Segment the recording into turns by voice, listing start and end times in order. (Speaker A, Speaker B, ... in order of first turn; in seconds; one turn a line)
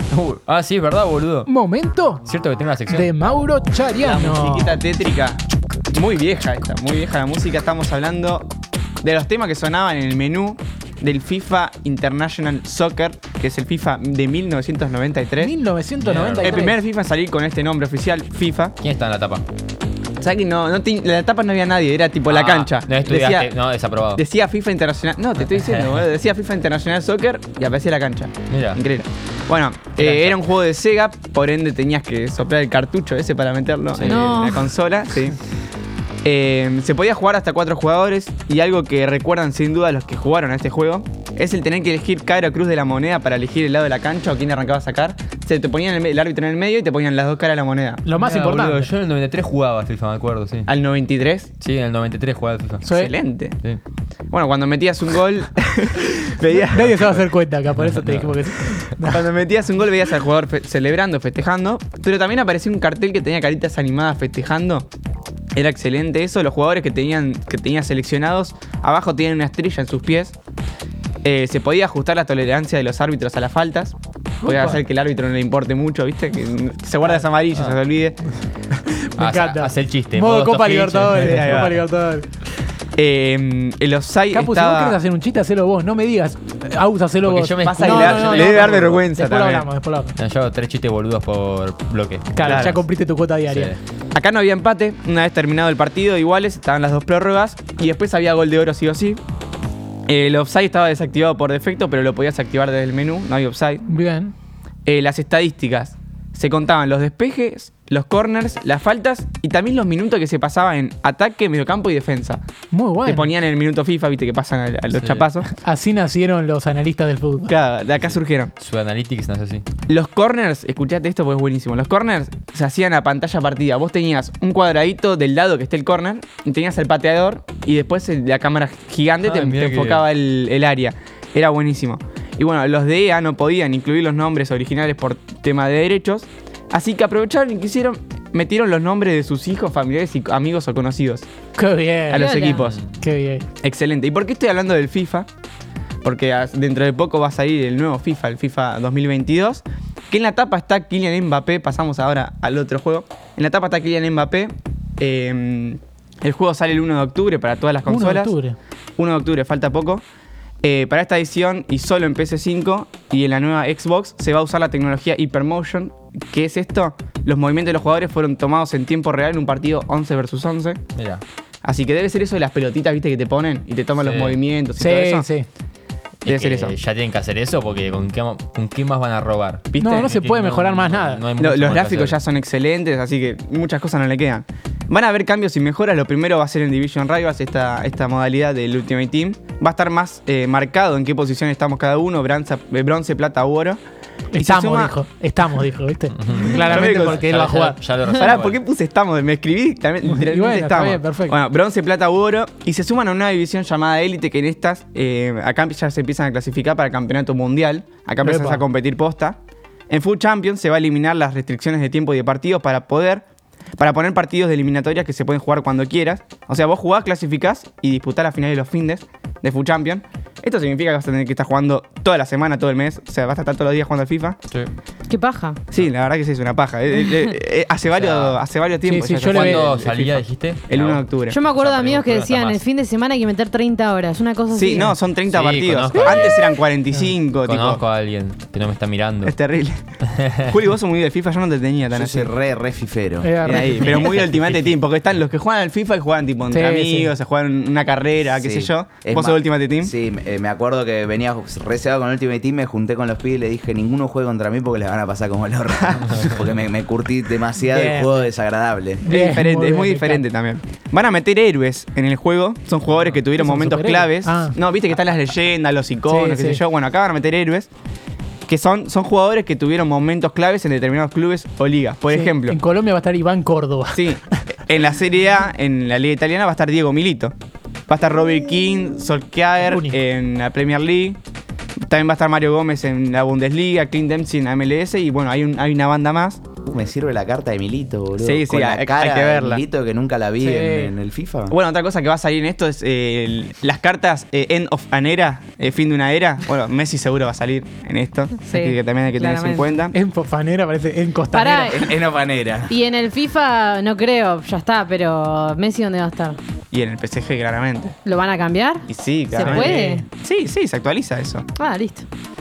Speaker A: 0.1-1.5
Speaker B: 1.5-2.2
Speaker A: 2.2-3.1
Speaker B: 2.9-4.8
Speaker C: 4.0-5.4
Speaker C: 5.9-8.5
Speaker C: 9.0-15.5
Speaker B: 15.4-16.8
Speaker A: 16.0-16.6
Speaker C: 16.4-18.7
Speaker A: 18.8-19.4
Speaker C: 20.2-23.5
Speaker A: 22.3-24.2
Speaker C: 24.1-35.4
Speaker A: 25.4-26.1
Speaker A: 28.5-28.8
Speaker A: 30.0-30.4
Speaker A: 33.9-34.5
Speaker D: 34.0-34.7
Speaker C: 36.2-48.0
Speaker B: 48.0-48.9
Speaker A: 48.2-50.7
Speaker C: 50.7-51.5
Speaker A: 51.6-52.8
Speaker B: 52.8-53.1
Speaker C: 52.9-53.5
Speaker C: 54.3-57.2
Speaker B: 56.5-59.2
Speaker A: 57.8-58.3
Speaker C: 59.0-64.9
Speaker C: 65.6-70.4
Speaker C: 71.2-78.2
Speaker B: 74.4-74.8
Speaker B: 79.0-82.3
Speaker A: 79.2-81.7
Speaker C: 81.2-81.8
Speaker C: 83.0-85.0
Speaker B: 84.3-90.2
Speaker A: 87.2-89.0
Speaker C: 87.6-89.7
Speaker A: 90.2-92.8
Speaker B: 92.3-93.8
Speaker C: 92.4-92.8
Speaker A: 93.5-93.8
Speaker C: 94.1-99.2
Speaker C: 100.1-103.9
Speaker B: 103.9-104.3
Speaker C: 104.9-112.4
Speaker B: 112.7-113.3
Speaker C: 113.0-115.5
Speaker A: 114.9-115.3
Speaker B: 115.6-117.5
Speaker C: 117.5-118.5
Speaker A: 118.0-119.6
Speaker C: 119.9-141.3
Speaker A: 129.2-130.1
Speaker B: 141.6-142.4
Speaker C: 142.1-142.8
Speaker D: 142.2-142.6
Speaker A: 142.5-142.9
Speaker B: 143.0-143.5
Speaker C: 143.6-145.3
Speaker C: 146.0-158.3
Speaker B: 157.8-158.6
Speaker C: 159.0-160.0
Speaker C: 160.6-170.8
Speaker A: 170.9-171.2
Speaker C: 171.6-175.2
Speaker A: 174.0-174.4
Speaker B: 174.8-175.4
Speaker A: 176.2-182.2
Speaker C: 176.3-176.8
Speaker C: 179.7-180.1
Speaker B: 179.8-181.2
Speaker C: 181.4-193.8
Speaker B: 194.3-197.8
Speaker C: 194.3-194.9
Speaker A: 196.1-198.6
Speaker C: 196.6-197.2
Speaker C: 198.1-209.4
Speaker B: 200.0-201.4
Speaker B: 208.2-208.6
Speaker C: 209.9-213.2
Speaker C: 213.8-224.4
Speaker D: 225.1-225.6
Speaker C: 225.7-231.4
Speaker A: 227.9-228.4
Speaker B: 228.8-229.7
Speaker A: 229.2-232.6
Speaker D: 231.3-235.0
Speaker C: 234.5-237.8
Speaker A: 235.2-236.5
Speaker B: 236.0-236.4
Speaker A: 237.4-239.3
Speaker C: 239.2-239.8
Speaker C: 240.5-242.3
Speaker E: 241.9-243.9
Speaker B: 243.2-244.1
Speaker C: 243.4-249.9
Speaker A: 244.3-244.6
Speaker B: 246.5-247.1
Speaker E: 248.3-259.1
Speaker B: 257.7-258.2
Speaker B: 259.0-260.2
Speaker C: 259.1-267.7
Speaker B: 263.3-264.6
Speaker B: 266.1-266.6
Speaker C: 268.5-272.6
Speaker B: 272.1-274.6
Speaker C: 273.9-277.3
Speaker C: 277.9-281.2
Speaker B: 279.6-280.0
Speaker C: 281.9-286.4
Speaker E: 286.7-291.6
Speaker C: 288.2-289.6
Speaker B: 290.4-290.9
Speaker C: 291.5-299.9
Speaker D: 298.4-299.7
Speaker B: 299.9-301.9
Speaker D: 301.3-301.9
Speaker E: 301.7-302.7
Speaker D: 302.7-306.4
Speaker C: 306.7-308.0
Speaker D: 308.1-310.1
Speaker C: 308.9-311.5
Speaker B: 309.4-310.0
Speaker D: 311.6-312.1